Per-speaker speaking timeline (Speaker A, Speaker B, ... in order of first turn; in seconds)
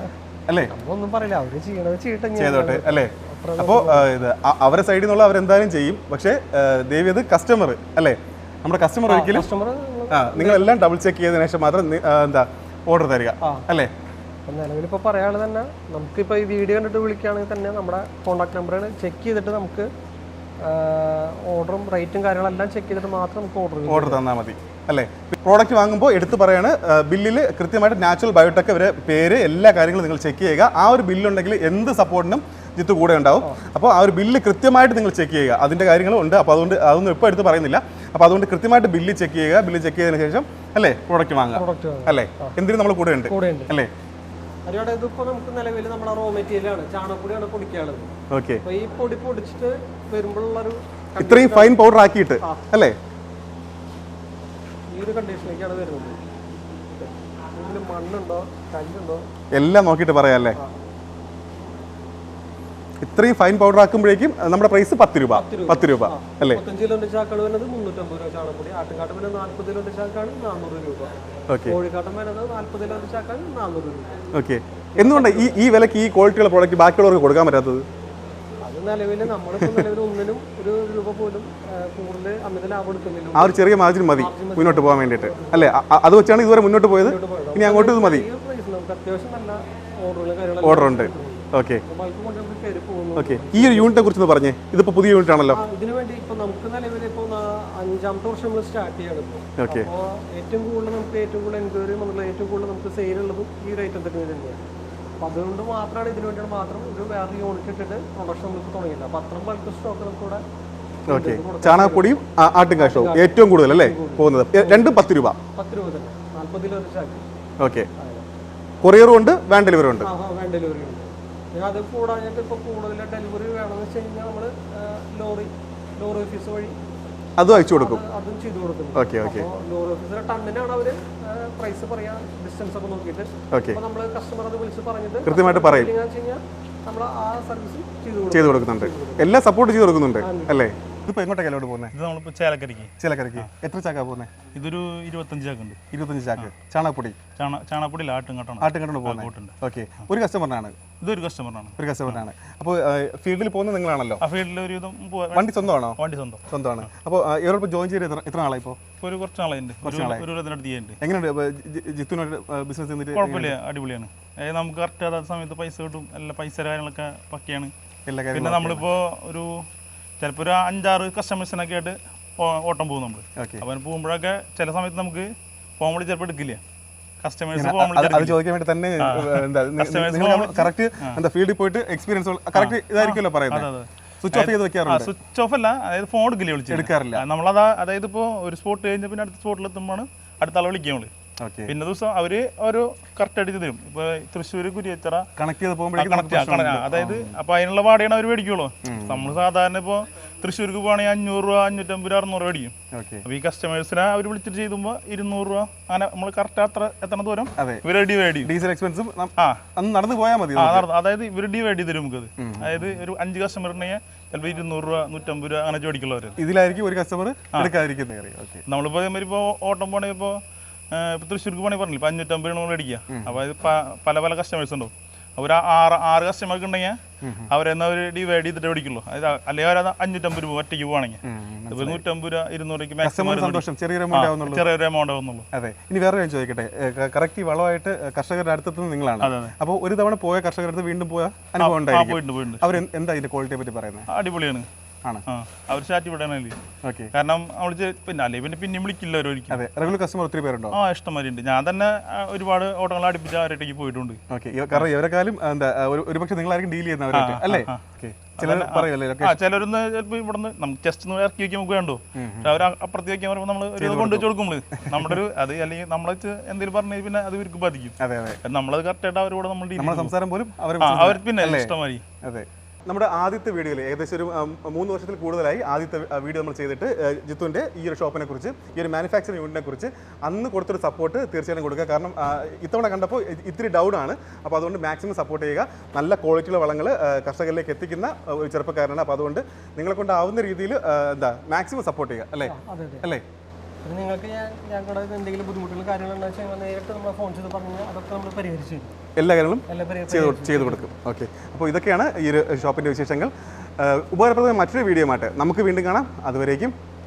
Speaker A: 0.7-4.1, 9.1-10.7, 13.4-13.7, 14.5-19.9, 20.6-24.2, 41.5-42.5, 43.3-43.7, 44.7-48.1, 48.6-51.8, 52.4-52.6, 54.9-56.2, 57.0-59.2, 65.3-71.1, 71.6-74.3, 74.9-75.7, 78.6-85.8, 87.0-94.0, 95.5-104.6, 105.2-110.4, 111.1-112.2, 112.8-115.0, 115.5-117.2, 118.0-118.2, 120.0-126.8, 127.5-139.3, 140.2-140.6, 292.4-293.1, 293.8-298.9, 299.7-300.9
Speaker B: 2.4-9.5, 10.1-13.9, 23.9-43.9, 48.3-48.6, 51.2-53.0, 59.5-60.6, 63.0-66.6, 71.5-71.8, 74.3-77.8, 79.6-79.9, 83.3-88.3, 90.6-91.8, 93.2-95.6, 99.6-99.9, 111.1-115.4, 117.6-117.9, 118.8-120.1, 127.4-128.0, 128.9-129.5, 133.5-133.8, 135.2-135.9, 138.3-141.9, 143.0-144.4, 145.9-147.2, 148.6-150.8, 151.8-154.2, 155.3-158.9, 159.8-160.2, 161.0-163.5, 168.1-168.8, 173.4-173.6, 177.5-183.7, 184.2-185.1, 186.7-187.2, 191.4-191.7, 195.4-197.3, 198.8-199.3, 202.9-203.2, 207.6-207.8, 208.4-210.9, 212.4-212.9, 216.4-218.6, 223.1-223.4, 227.2-227.5, 231.2-232.0, 233.0-234.6, 235.5-244.1, 246.8-247.1, 249.5-250.8, 254.3-259.4, 262.1-262.6, 263.8-265.1, 268.0-268.4, 269.8-293.2, 299.1-306.7
Speaker C: 141.9-143.5, 144.5-145.8, 147.3-149.5, 151.0-152.2, 154.2-156.5, 159.0-161.0, 163.1-167.7, 168.3-169.7, 170.2-176.6, 177.2-178.4, 179.0-181.2, 182.5-191.1, 191.7-195.3, 195.9-202.7, 203.2-208.5, 209.4-209.6, 210.5-216.4, 218.7-220.4, 220.9-235.5, 239.2-239.5, 241.6-242.8, 244.1-244.7, 245.3-246.6, 247.1-249.6, 250.7-254.2, 257.1-257.8, 258.4-270.1, 270.8-272.0